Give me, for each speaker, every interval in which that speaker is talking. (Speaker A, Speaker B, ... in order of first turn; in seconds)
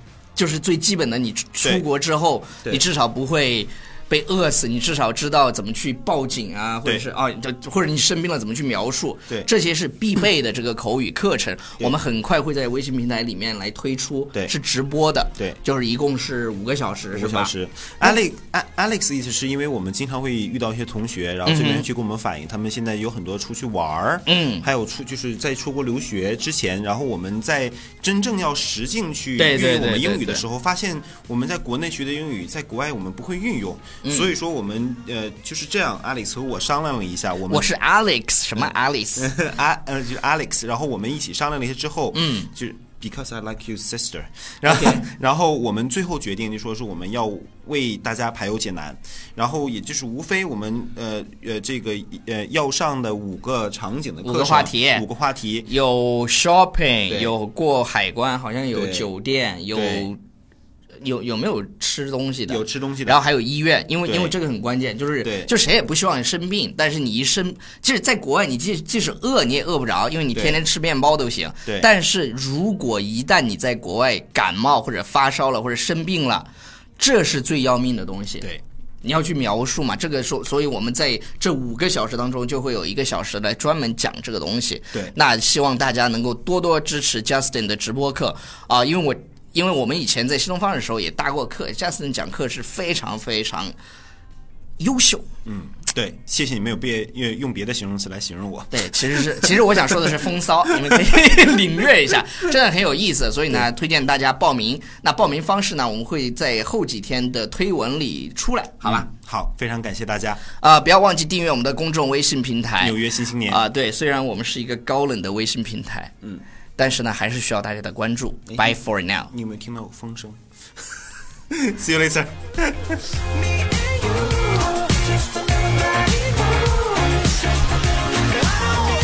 Speaker A: 0.3-18.2, 21.4-21.9, 24.2-24.7, 29.4-30.4, 34.0-34.3, 37.5-39.3, 42.1-42.5, 44.7-45.0, 54.2-55.0, 55.6-60.2, 61.0-78.5, 79.0-93.7, 94.8-95.2, 98.7-109.1, 110.6-116.1, 116.8-119.3
Speaker B: 17.1-37.7, 39.2-55.7, 58.7-59.1, 59.7-60.1, 62.5-63.2, 64.0-64.3, 65.2-65.5, 70.3-70.6, 95.4-99.8, 108.8-110.4, 112.8-113.6, 118.5-118.8, 119.3-123.2